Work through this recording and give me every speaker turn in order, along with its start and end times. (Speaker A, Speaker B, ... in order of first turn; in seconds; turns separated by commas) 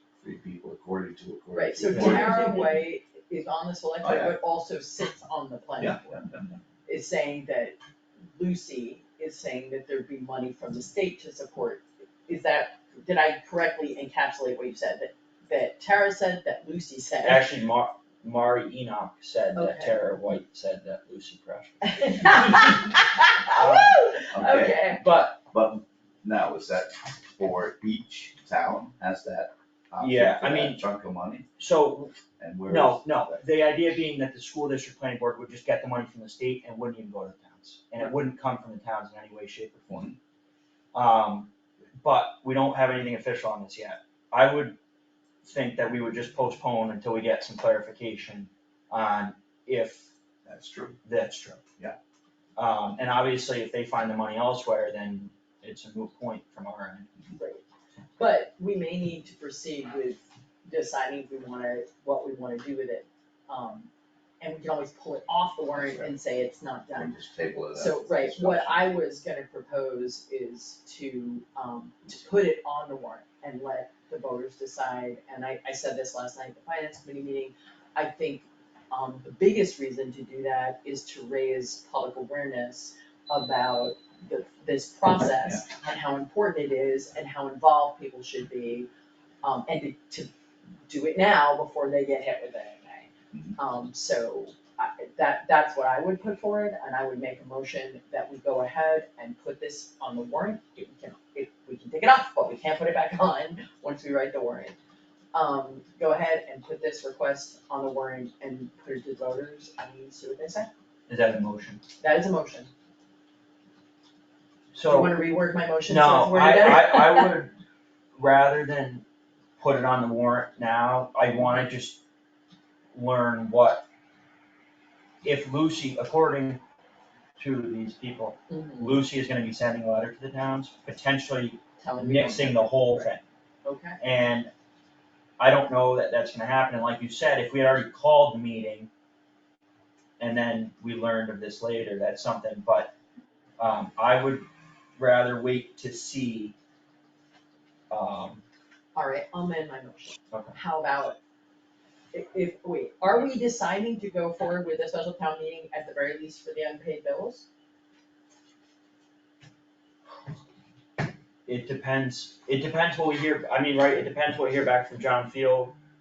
Speaker A: 0.2-2.6, Speaker B: 1.5-6.2, Speaker C: 1.9-2.6, Speaker A: 4.0-4.3, Speaker A: 5.8-6.6, Speaker B: 6.8-7.7, Speaker B: 8.3-17.5, Speaker C: 17.2-22.7, Speaker B: 19.5-20.0, Speaker B: 21.8-25.0, Speaker C: 23.5-24.0, Speaker A: 24.3-25.0, Speaker C: 25.0-25.4, Speaker A: 25.5-31.5, Speaker C: 30.0-30.8, Speaker C: 31.6-32.1, Speaker A: 32.4-33.4, Speaker C: 32.7-39.9, Speaker A: 39.9-40.2, Speaker C: 40.9-44.8, Speaker C: 45.4-50.1, Speaker A: 50.5-51.0, Speaker C: 51.0-51.6, Speaker C: 52.6-57.1, Speaker B: 57.4-57.6, Speaker B: 58.2-63.9, Speaker B: 64.4-67.1, Speaker A: 65.7-66.1, Speaker A: 66.9-68.9, Speaker B: 67.7-88.9, Speaker B: 89.4-90.3, Speaker B: 90.9-104.7, Speaker B: 105.3-110.7, Speaker C: 111.1-111.8, Speaker B: 112.0-112.7, Speaker C: 114.7-115.2, Speaker B: 114.8-117.3, Speaker C: 115.9-117.5, Speaker C: 118.2-119.0, Speaker C: 119.6-122.0, Speaker C: 122.9-123.8, Speaker C: 125.2-126.6, Speaker C: 127.4-133.2, Speaker B: 128.5-129.0, Speaker B: 131.8-133.1, Speaker B: 133.6-134.0, Speaker C: 134.0-134.5, Speaker C: 135.4-138.9, Speaker C: 140.2-142.9, Speaker C: 143.6-146.5, Speaker C: 147.9-148.4, Speaker B: 148.9-151.2, Speaker B: 152.1-157.4, Speaker C: 161.4-165.8